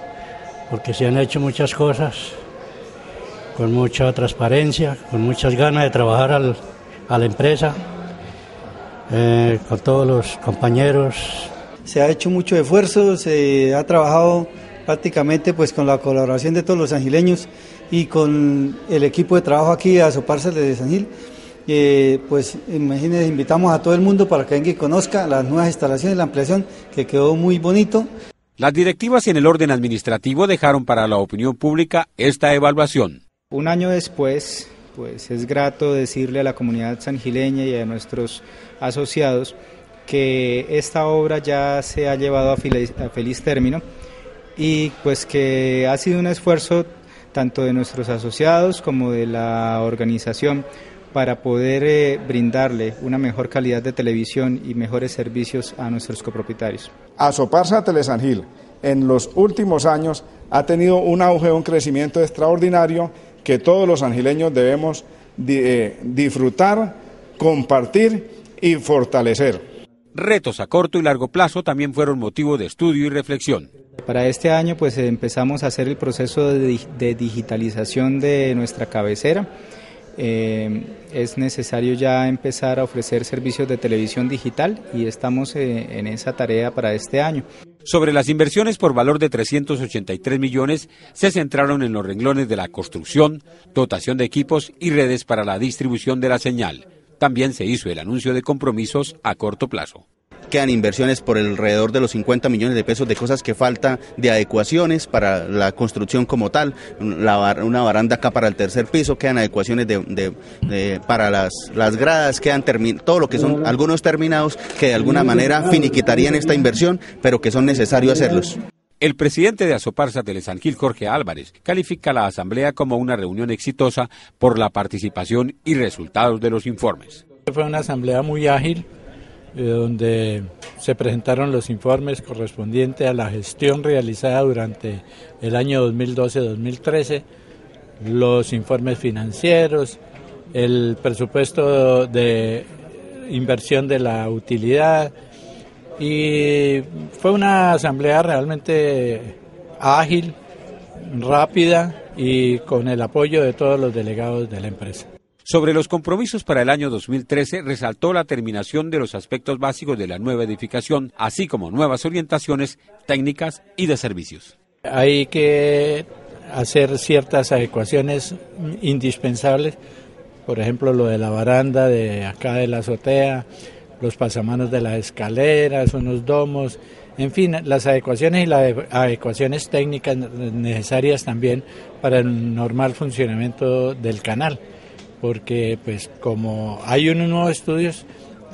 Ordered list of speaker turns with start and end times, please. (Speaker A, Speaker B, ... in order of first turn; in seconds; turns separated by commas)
Speaker A: 0.7-2.4, Speaker A: 3.5-7.8, Speaker A: 9.1-11.5, Speaker B: 11.8-21.1, Speaker B: 21.7-28.1, Speaker C: 28.6-33.2, Speaker D: 33.5-39.5, Speaker D: 40.1-43.8, Speaker D: 44.6-56.9, Speaker E: 57.2-69.6, Speaker C: 70.1-73.7, Speaker D: 74.0-79.5, Speaker D: 80.2-87.5, Speaker C: 87.8-100.0, Speaker F: 100.5-118.6, Speaker C: 119.0-127.2, Speaker G: 127.5-128.8, Speaker G: 129.5-137.2, Speaker G: 138.0-140.0, Speaker G: 140.5-145.1, Speaker G: 146.0-150.3, Speaker G: 151.1-155.1, Speaker C: 155.4-164.5, Speaker G: 164.9-169.8, Speaker G: 170.5-173.4, Speaker G: 174.0-184.6, Speaker G: 185.2-188.1